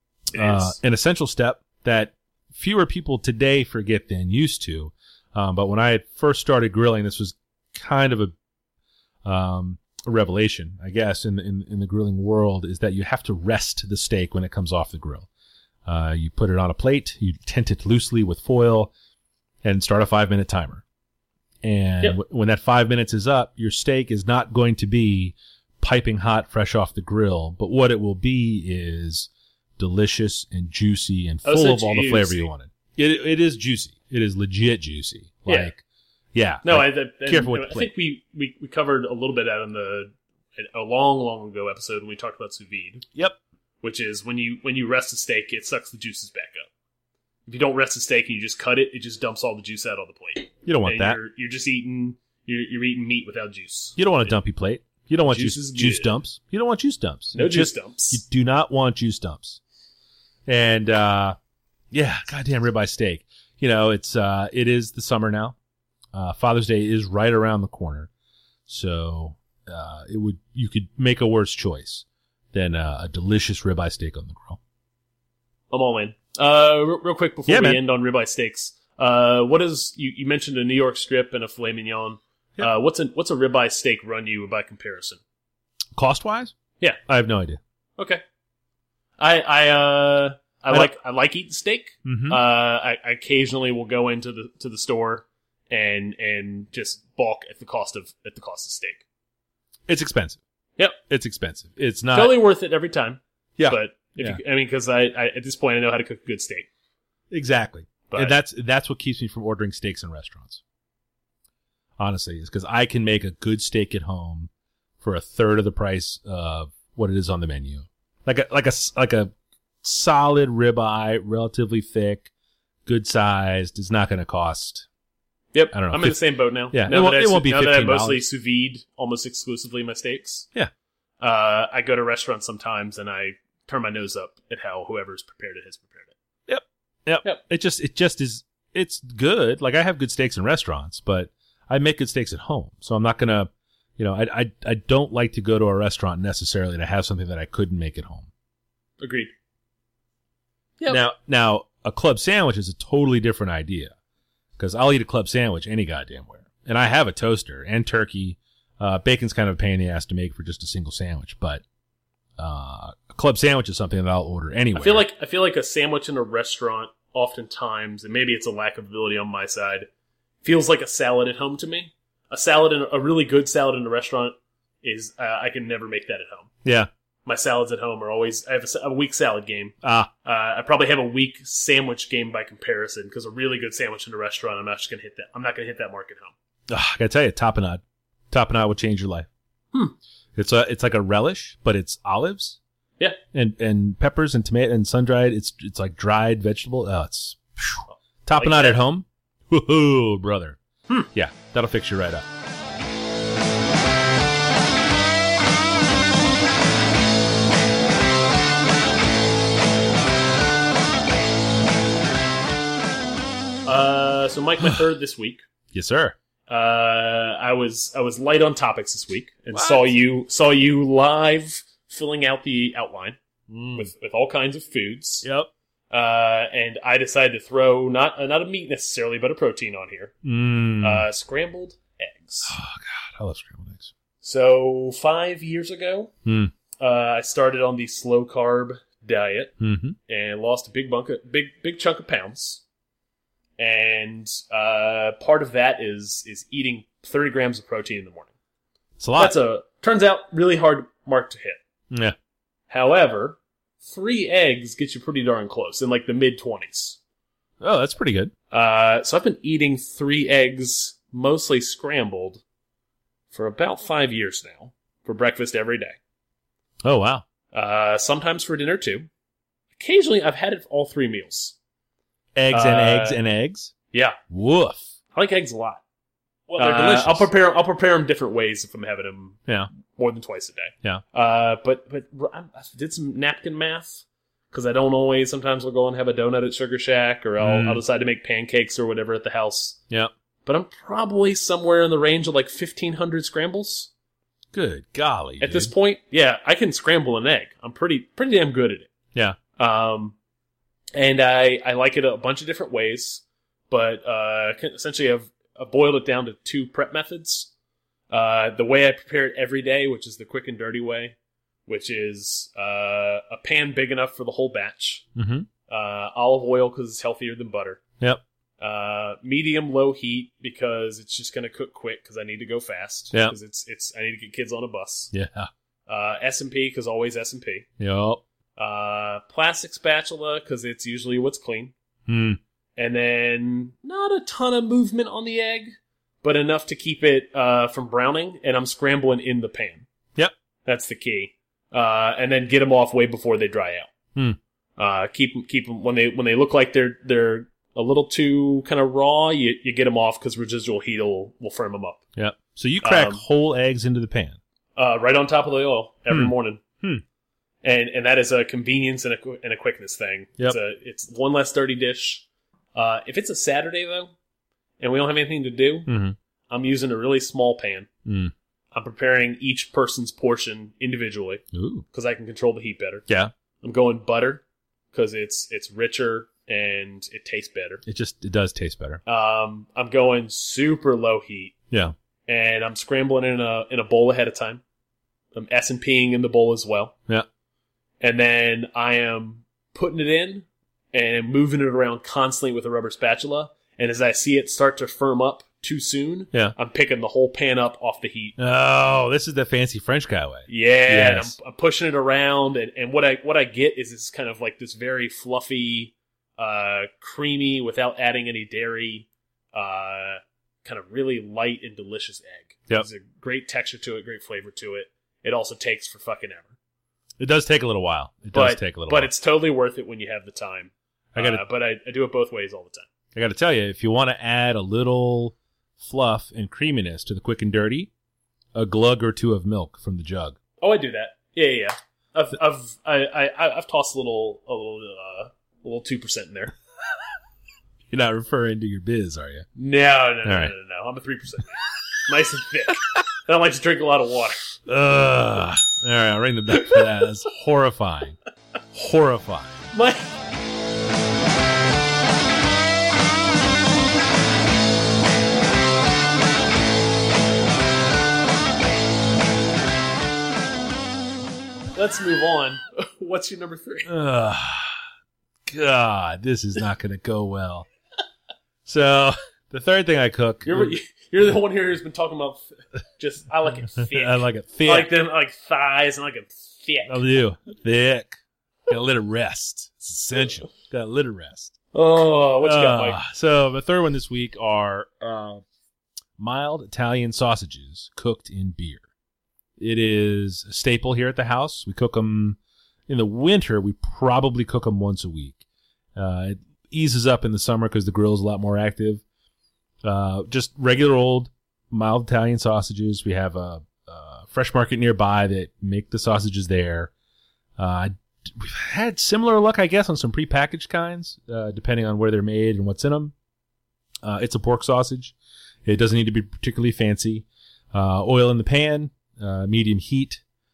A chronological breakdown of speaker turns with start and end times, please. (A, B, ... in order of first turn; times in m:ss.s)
0:00.3-0:00.8 A
0:00.3-0:08.3 B
0:09.2-0:15.3 B
0:15.9-0:18.9 B
0:19.6-0:20.8 B
0:21.6-0:35.8 B
0:31.4-0:32.5 A
0:35.5-0:35.7 A
0:36.3-0:37.9 B
0:36.6-0:43.0 A
0:43.8-0:46.7 A
0:47.5-0:54.4 A
0:50.6-0:51.2 B
0:54.0-0:59.6 B
0:55.3-0:56.1 A
0:57.3-0:58.2 A
1:00.5-1:01.4 B
1:01.9-1:05.6 B
1:06.1-1:08.1 B
1:08.7-1:14.6 B
1:15.7-1:25.2 A
1:17.5-1:17.8 B
1:26.0-1:26.6 B
1:27.1-1:27.6 B
1:28.0-1:28.2 A
1:29.2-1:39.0 A
1:32.0-1:32.4 B
1:39.9-1:40.4 B
1:41.1-1:42.4 B
1:42.1-1:46.7 A
1:43.6-1:44.4 B
1:47.3-1:50.6 B
1:48.1-1:48.4 A
1:52.0-1:54.5 B
1:55.0-1:59.3 B
1:59.8-2:02.3 B
2:02.9-2:04.9 B
2:05.5-2:10.5 A
2:05.7-2:06.2 B
2:06.7-2:08.2 B
2:11.2-2:16.1 A
2:16.5-2:28.3 B
2:29.0-2:29.3 A
2:30.9-2:34.0 B
2:34.6-2:41.6 B
2:42.4-2:45.1 B
2:44.7-2:49.9 A
2:50.4-2:56.5 A
2:56.6-2:56.9 B
2:57.3-3:06.3 A
2:59.8-3:00.1 B
3:06.7-3:09.3 B
3:10.4-3:12.6 B
3:13.3-3:20.6 B
3:17.9-3:18.8 A
3:21.1-3:22.3 B
3:33.6-3:35.4 A
3:35.7-3:36.2 B
3:36.5-3:43.2 A
3:39.5-3:39.9 B
3:43.5-3:43.8 B
3:43.7-3:45.2 A
3:45.2-3:45.5 B
3:45.9-3:50.2 A
3:50.2-3:51.1 B
3:50.8-3:52.6 A
3:52.4-3:53.9 B
3:54.2-3:56.1 A
3:56.2-3:56.5 B
3:56.8-3:59.6 A
3:59.6-4:00.0 B
4:00.1-4:02.6 A
4:03.6-4:08.3 A
4:09.0-4:09.4 B
4:09.2-4:11.6 A
4:11.9-4:12.2 B
4:12.7-4:17.0 A
4:17.6-4:18.3 B
4:18.5-4:22.4 A
4:23.3-4:26.0 A
4:26.8-4:27.2 B
4:27.5-4:29.1 A
4:29.8-4:31.6 A
4:32.4-4:33.7 B
4:32.5-4:33.2 A
4:33.9-4:34.2 A
4:34.3-4:34.9 B
4:35.1-4:35.8 A
4:36.5-4:49.8 A
4:36.6-4:37.3 B
4:47.4-4:47.8 B
4:50.5-4:53.9 A
4:54.5-4:55.7 B
4:55.4-4:58.9 A
4:59.6-5:00.2 A
5:01.0-5:07.5 A
5:08.1-5:11.2 A
5:11.7-5:15.1 A
5:15.2-5:15.5 B
5:15.7-5:17.8 A
5:18.6-5:25.1 A
5:25.1-5:25.5 B
5:25.9-5:27.7 A
5:27.8-5:28.2 B
5:28.6-5:31.7 A
5:32.1-5:32.4 B
5:32.8-5:39.9 A
5:40.6-5:43.9 A
5:44.8-5:52.0 A
5:52.2-5:54.4 B
5:52.8-5:53.2 A
5:54.8-5:56.6 A
5:56.1-5:57.0 B
5:57.6-6:04.1 A
6:04.8-6:05.9 A
6:05.9-6:06.2 B
6:06.5-6:07.9 A
6:08.1-6:08.3 B
6:08.7-6:13.1 A
6:11.5-6:11.8 B
6:13.1-6:13.3 B
6:13.6-6:17.8 A
6:17.9-6:19.0 B
6:19.1-6:21.6 A
6:22.3-6:24.6 A
6:25.3-6:27.0 A
6:28.0-6:38.4 A
6:38.4-6:41.4 B
6:40.5-6:56.6 A
6:57.2-6:59.1 B
6:58.3-7:02.9 A
7:01.2-7:01.4 B
7:03.2-7:07.9 B
7:08.6-7:10.4 B
7:10.6-7:16.5 A
7:17.9-7:19.5 B
7:19.6-7:24.5 A
7:20.2-7:20.5 B
7:24.7-7:28.2 B
7:28.7-7:29.7 B
7:29.7-7:30.2 A
7:41.7-7:43.9 A
7:43.9-7:44.8 B
7:45.5-7:47.7 B
7:48.6-7:50.8 B
7:50.4-7:57.1 A
7:53.8-7:54.9 B
7:56.8-8:01.6 B
8:01.7-8:03.0 A
8:02.4-8:05.4 B
8:06.2-8:08.8 B
8:09.6-8:15.4 B
8:16.0-8:19.0 B
8:19.8-8:26.9 B
8:27.6-8:33.1 B
8:34.0-8:40.2 B